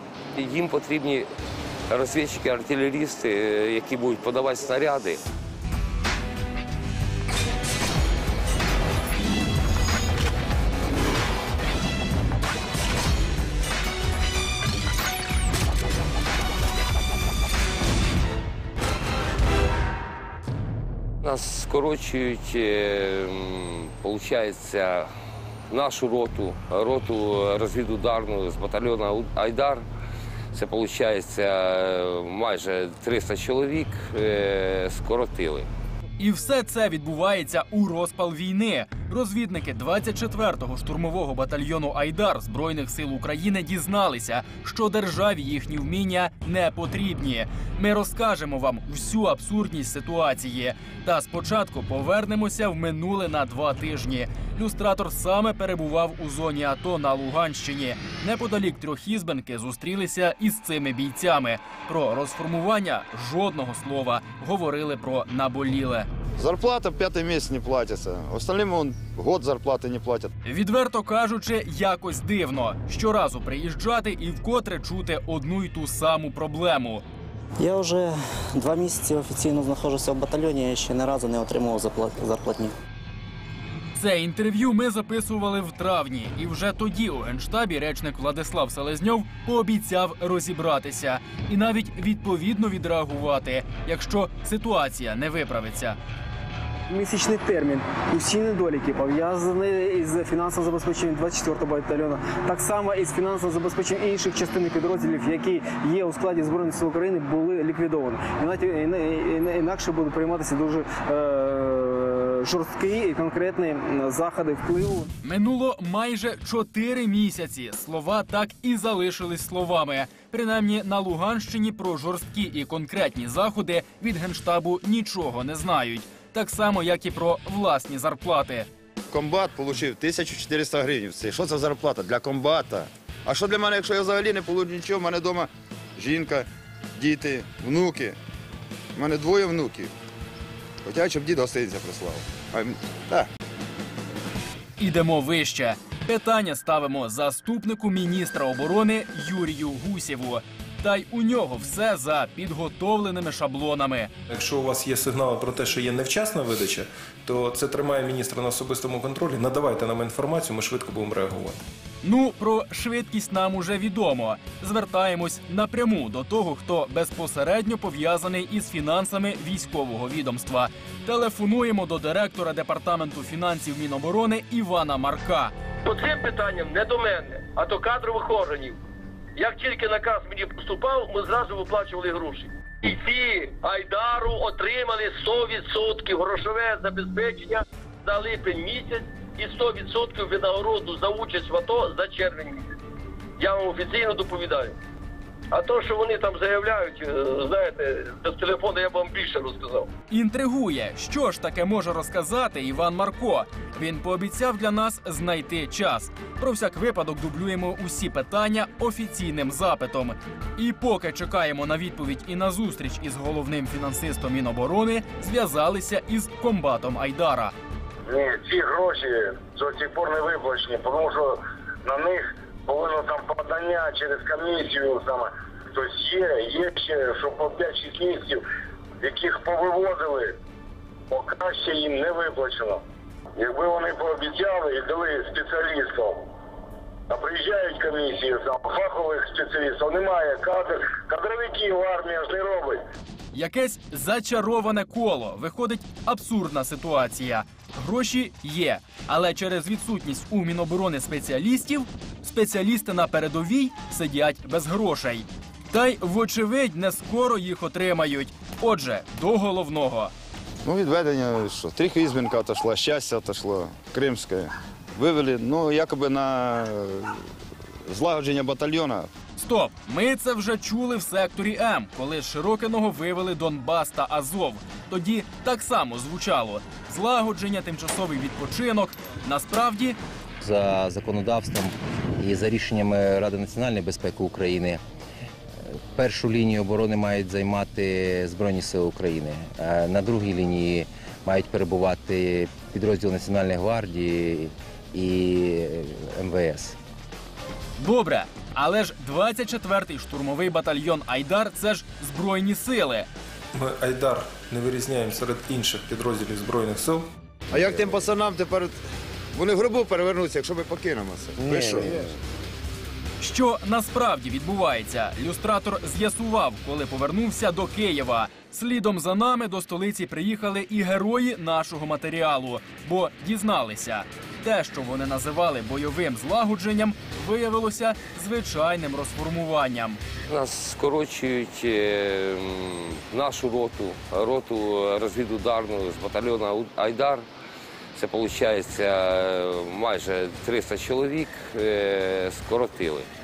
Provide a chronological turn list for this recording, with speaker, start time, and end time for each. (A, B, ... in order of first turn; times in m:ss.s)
0:00.4-0:01.3 A
0:01.9-0:05.2 A
0:21.2-0:25.1 A
0:25.7-0:29.8 A
0:30.5-0:35.7 A
0:36.2-1:06.1 B
1:06.4-1:10.3 C
1:10.4-1:17.0 B
1:17.6-1:22.7 D
1:23.9-1:36.0 B
1:36.9-1:55.1 E
1:55.2-2:08.7 B
2:09.1-2:16.5 C
2:17.0-2:18.2 C
2:19.0-2:19.9 C
2:20.8-2:23.3 C
2:24.8-2:34.1 B
2:34.3-2:41.6 F
2:42.0-2:55.5 B
2:55.8-2:58.8 G
2:59.4-3:12.8 G
3:13.4-3:14.8 G
3:15.5-3:19.9 G
3:20.1-3:37.5 B
3:38.1-3:48.4 H
3:49.0-3:50.4 H
3:51.1-3:52.8 H
3:53.4-3:56.2 H
3:57.1-4:02.8 H
4:03.3-4:20.1 B
4:20.6-4:27.2 C
4:27.9-4:29.1 C
4:29.4-4:40.0 B
4:40.4-4:44.8 I
4:45.9-4:56.8 I
4:57.8-5:03.1 B
5:03.6-5:07.1 F
5:07.5-5:08.8 C
5:09.3-5:12.2 C
5:13.2-5:30.0 B
5:30.3-5:37.2 A
5:37.9-5:43.1 A